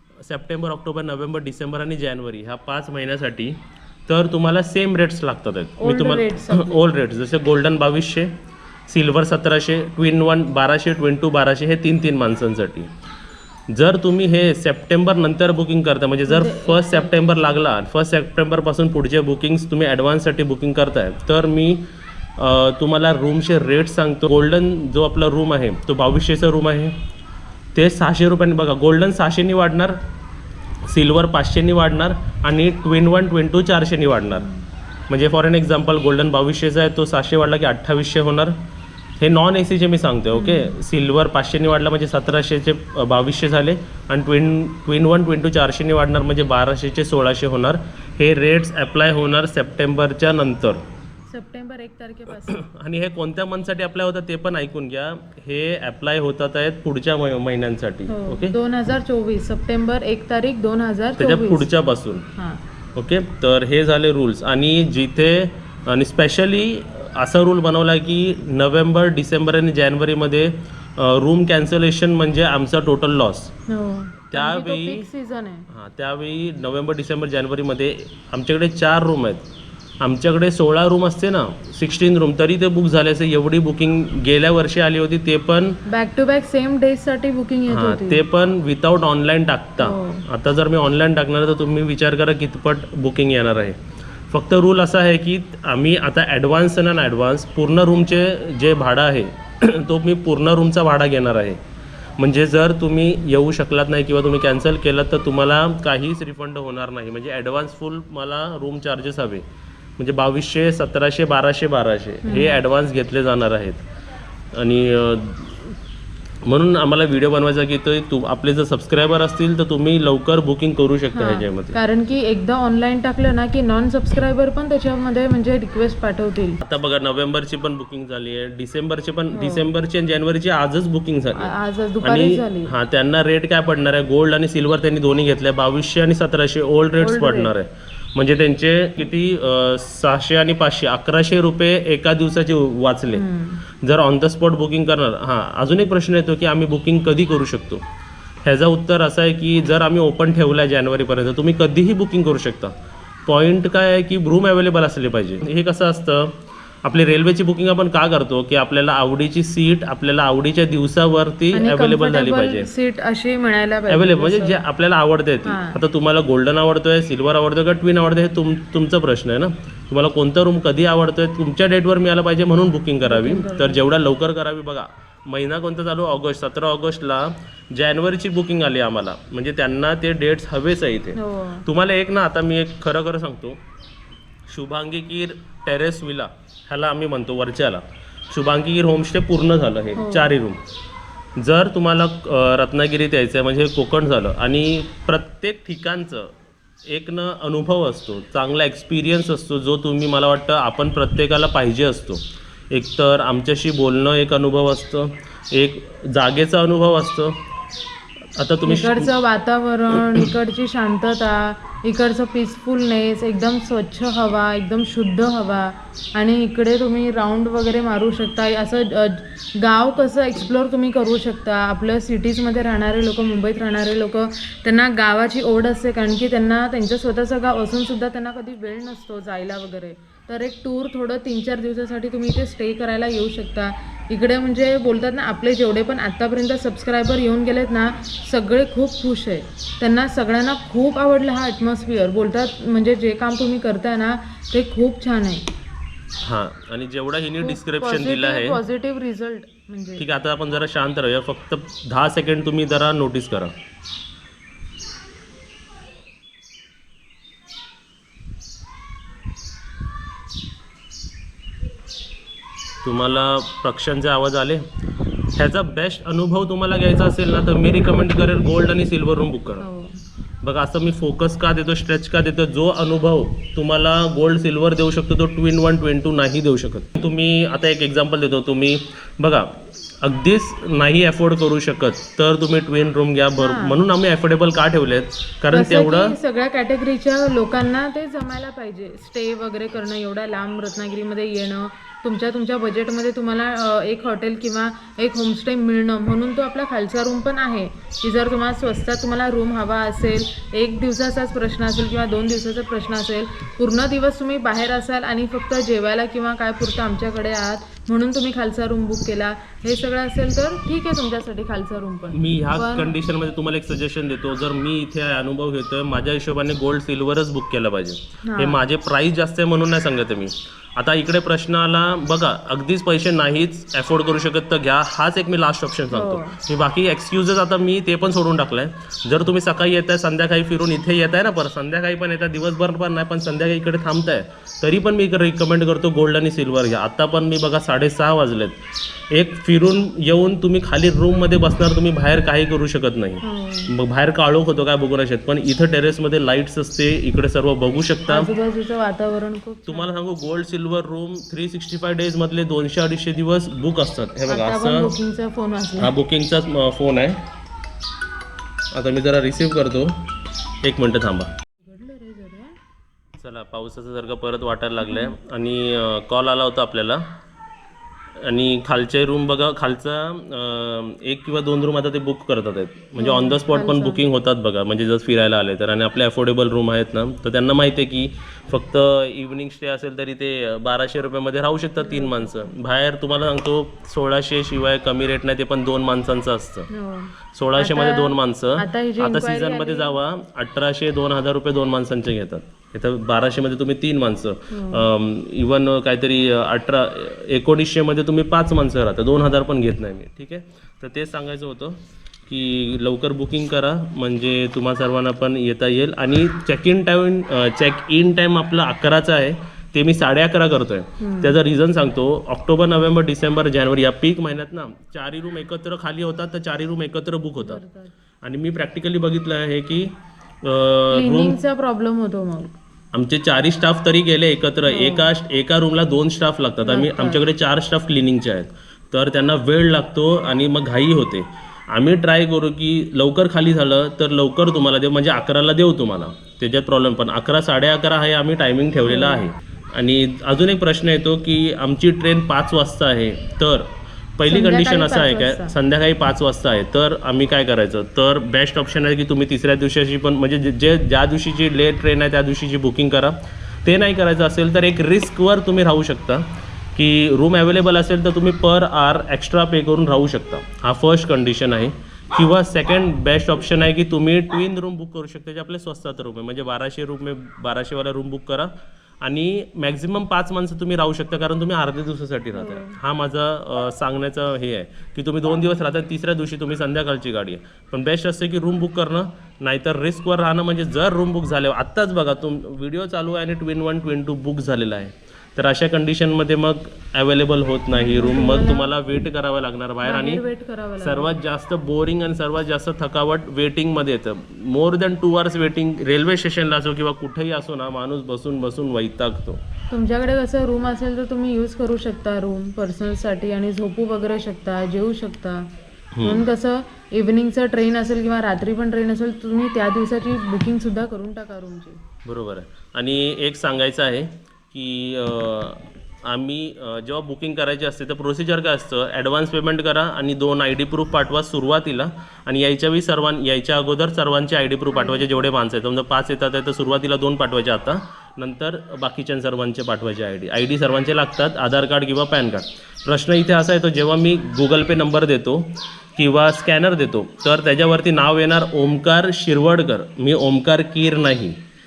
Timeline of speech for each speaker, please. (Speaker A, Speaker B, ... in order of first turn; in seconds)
Speaker A: 0.2-8.3, 8.9-12.9, 13.7-21.8, 22.4-26.9, 27.7-30.0, 30.9-34.5, 35.1-38.5, 39.2-50.8, 52.4-58.5, 61.2-62.3, 63.0-73.5, 74.3-75.0, 75.7-79.4, 80.0-85.8, 87.7-101.6, 102.2-109.4, 110.0-113.8, 114.5-115.7, 116.4-121.8, 126.6-143.2, 143.8-147.8, 148.4-152.7, 153.3-162.7, 163.9-183.6, 184.5-190.6, 191.4-196.3, 196.8-207.3, 208.4-209.1, 246.2-248.6, 250.0-253.5, 262.8-264.6, 265.4-269.6, 270.4-286.1, 312.1-338.6, 339.1-348.3, 349.7-354.9, 355.8-357.2, 358.7-359.9, 360.6-361.3, 363.2-367.0, 368.2-386.7, 387.3-417.6, 418.2-421.4, 422.9-490.2, 490.8-499.4, 505.9-506.2, 512.0-541.4
Speaker B: 5.8-6.8, 16.3-17.6, 40.3-40.8, 51.3-52.6, 58.1-61.7, 62.3-62.6, 73.7-75.7, 85.8-88.2, 89.8-90.2, 112.2-112.6, 121.1-126.6, 129.3-129.7, 131.3-132.7, 137.0-137.5, 143.1-143.6, 161.5-164.6, 165.4-165.8, 173.0-173.8, 181.2-181.6, 189.9-190.3, 208.6-245.4, 247.4-250.0, 269.6-270.0, 283.4-283.8, 285.5-312.9, 318.2-318.6, 325.9-326.4, 343.2-343.7, 348.1-349.9, 354.3-355.9, 361.6-362.5, 364.8-365.1, 373.0-374.1, 381.8-382.5, 386.7-390.0, 394.5-394.9, 411.0-411.4, 417.4-417.9, 420.9-422.5, 424.7-425.1, 426.6-427.2, 438.8-439.2, 444.2-445.6, 472.3-472.8, 487.7-488.7, 489.8-491.2, 499.7-505.5, 506.0-511.8, 524.7-525.3